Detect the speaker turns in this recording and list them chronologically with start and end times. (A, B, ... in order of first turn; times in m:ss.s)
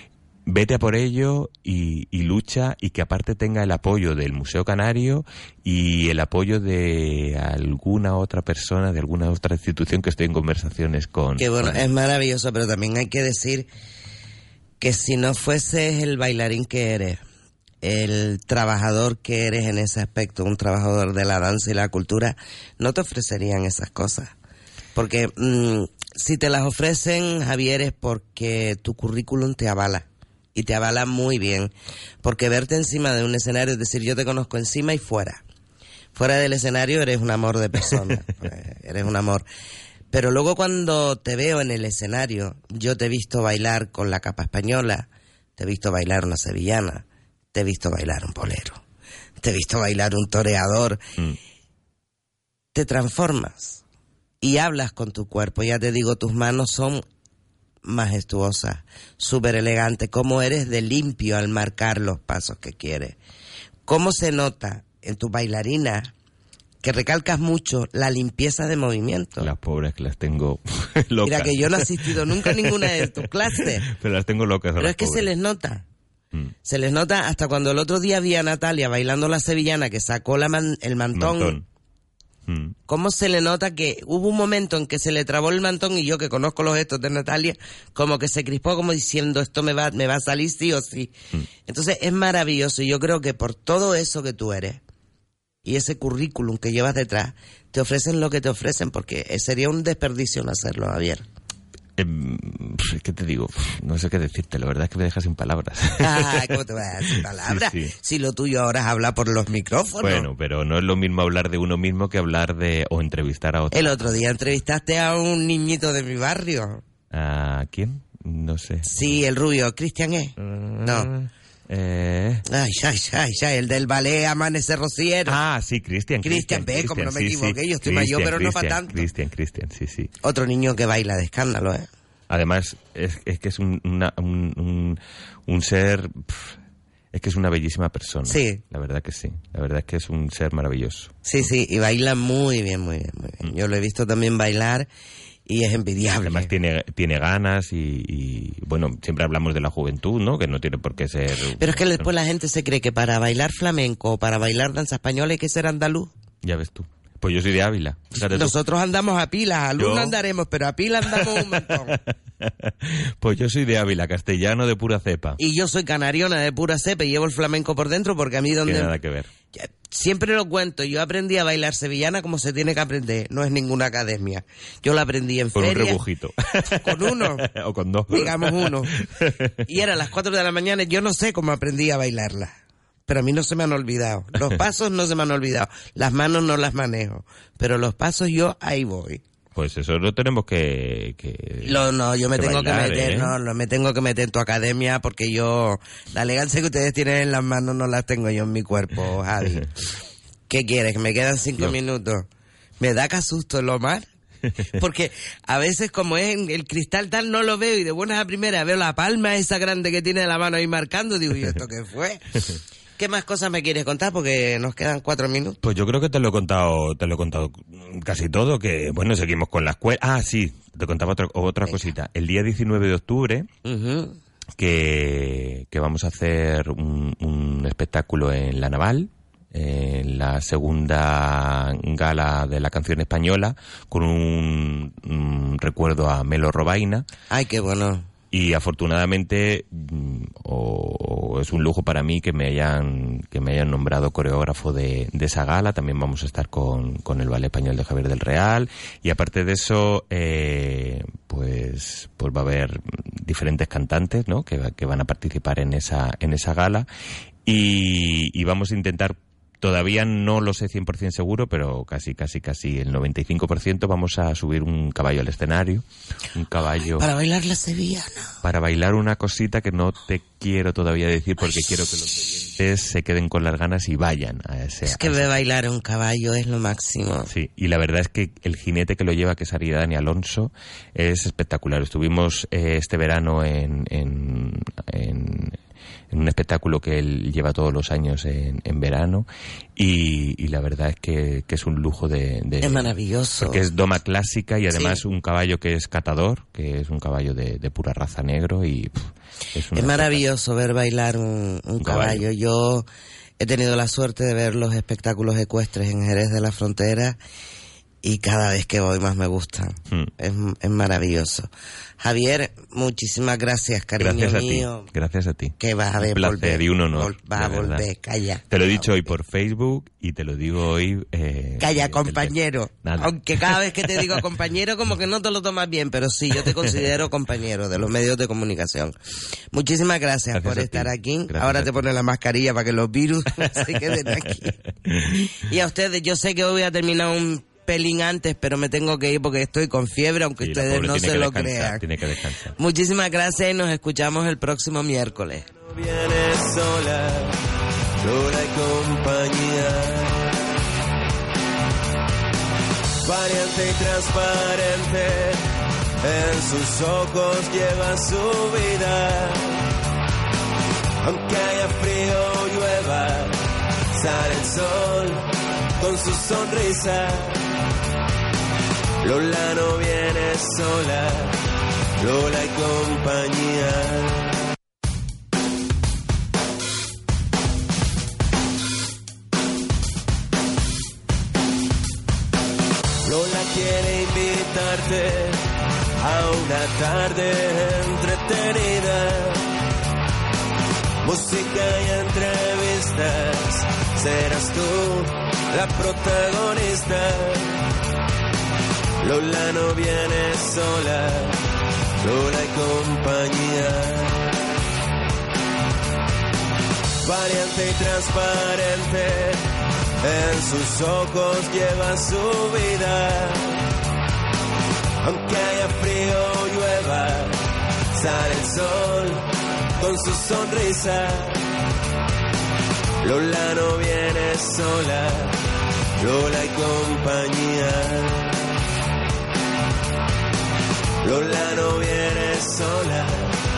0:00.5-0:11.9 A
0:11.4-0:13.7 B
0:14.8-0:17.2 B
0:17.8-0:24.3 B
0:24.9-0:31.7 B
0:32.2-0:35.4 B
0:36.1-0:39.4 B
0:40.1-0:48.8 B
0:49.4-0:51.0 B
0:52.7-0:53.8 B
0:54.4-0:57.0 B
0:57.8-1:03.2 B
1:03.9-1:06.1 B
1:06.8-1:09.5 B
1:09.4-1:15.3 A
1:11.2-1:13.8 B
1:14.8-1:15.8 B
1:16.6-1:21.6 B
1:21.1-1:21.6 A
1:22.5-1:22.7 A
1:22.9-1:31.1 B
1:31.6-1:34.8 B
1:35.6-1:41.2 B
1:42.0-1:46.6 A
1:46.0-1:50.3 B
1:47.1-1:47.9 A
1:50.0-1:54.3 A
1:53.7-1:56.8 B
1:57.1-1:59.2 A
1:58.8-2:01.1 B
2:00.4-2:02.4 A
2:02.5-2:05.4 B
2:05.2-2:10.1 A
2:06.2-2:09.1 B
2:10.2-2:11.9 B
2:12.3-2:16.6 A
2:17.1-2:21.2 A
2:18.2-2:18.6 B
2:21.2-2:24.9 B
2:25.5-2:26.5 B
2:26.2-2:32.1 A
2:31.6-2:36.1 B
2:36.4-2:38.5 A
2:38.2-2:42.0 B
2:39.8-2:40.2 A
2:41.0-2:45.4 A
2:45.4-2:48.9 B
2:48.6-2:49.3 A
2:49.5-2:56.0 B
2:55.5-2:59.6 A
2:56.7-2:57.5 B
2:58.1-2:58.9 B
2:59.6-3:09.2 B
3:04.3-3:04.6 A
3:09.5-3:11.8 A
3:11.6-3:19.7 B
3:12.4-3:13.3 A
3:20.5-3:22.3 B
3:22.8-3:24.1 B
3:24.7-3:32.2 B
3:33.0-3:35.6 B
3:35.6-3:43.5 A
3:43.6-3:44.2 B
3:44.6-3:57.1 A
3:57.3-3:58.1 B
3:58.3-4:16.9 A
4:17.4-4:25.8 A
4:26.3-4:27.1 A
4:27.0-4:28.4 B
4:28.4-4:35.3 A
4:34.8-4:37.3 B
4:37.3-4:45.6 A
4:46.1-5:00.2 A
4:52.6-4:53.6 B
4:54.7-4:55.0 B
4:59.7-5:02.9 B
5:01.8-5:02.2 A
5:03.4-5:07.2 B
5:08.0-5:11.5 B
5:12.0-5:14.9 B
5:14.0-5:15.5 A
5:15.6-5:19.1 B
5:16.1-5:17.8 A
5:18.5-5:24.2 A
5:21.6-5:29.0 B
5:26.4-5:26.9 A
5:29.5-5:41.8 B
5:30.3-5:31.8 A
5:33.4-5:35.2 A
5:40.4-5:42.5 A
5:42.6-5:45.5 B
5:45.6-5:47.4 C
5:48.0-5:50.3 C
5:53.0-5:55.4 C
5:56.0-5:59.6 C
6:01.0-6:03.4 C
6:03.9-6:07.4 C
6:09.0-6:11.4 C
6:12.0-6:14.3 C
6:23.0-6:25.4 C
6:26.0-6:29.4 C
6:31.0-6:37.6 C
6:39.0-6:41.4 C
6:42.0-6:44.3 C
6:47.0-6:49.4 C
6:50.0-6:53.6 C
6:55.0-7:01.4 C
7:03.0-7:05.4 C
7:06.0-7:08.3 C
7:11.0-7:13.4 C